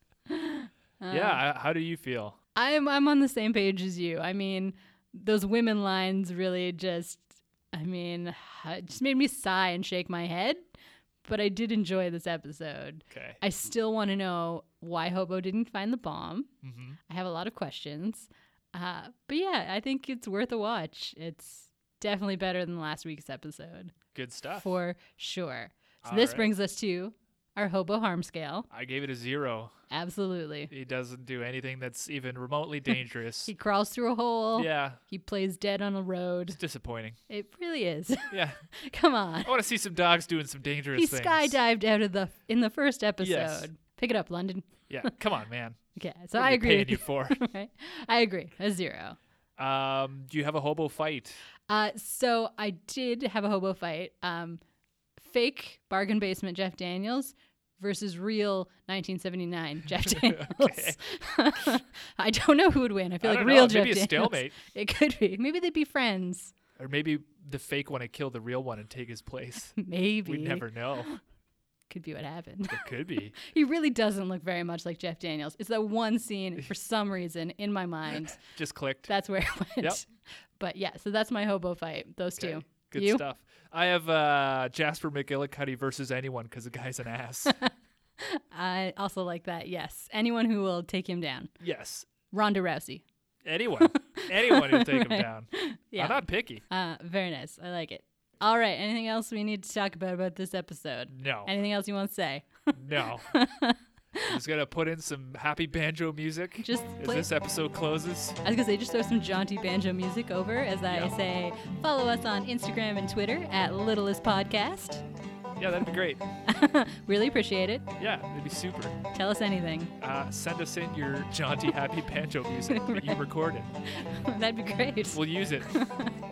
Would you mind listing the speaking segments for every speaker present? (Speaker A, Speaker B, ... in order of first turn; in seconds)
Speaker A: 0.3-1.4, 2.5-10.6, 11.2-16.5, 17.1-23.9, 24.6-28.7, 29.9-30.7, 33.5-36.6, 37.3-39.5, 40.9-45.1, 46.0-49.2, 51.7-54.6, 55.2-66.5, 69.8-71.2, 71.9-72.8, 73.4-78.4, 79.1-83.2, 87.6-91.5, 92.3-93.0, 93.8-104.3, 106.6-107.3, 108.4-115.0, 116.5-117.9, 119.1-119.9, 122.7-123.2, 123.9-126.1
Speaker B: 1.1-2.4, 13.1-13.4, 16.6-17.0, 24.1-24.6, 26.0-26.5, 28.7-29.7, 30.7-33.5, 34.6-35.0, 36.6-37.2, 38.3-38.6, 39.5-41.5, 43.2-43.7, 44.9-45.8, 46.4-47.4, 49.6-51.4, 60.0-61.0, 63.2-64.5, 66.8-71.1, 72.7-73.4, 78.4-79.1, 82.4-87.6, 91.6-92.1, 93.5-96.6, 101.1-101.5, 102.7-103.3, 104.3-108.4, 115.6-116.2, 118.0-119.0, 120.0-123.7, 125.1-125.8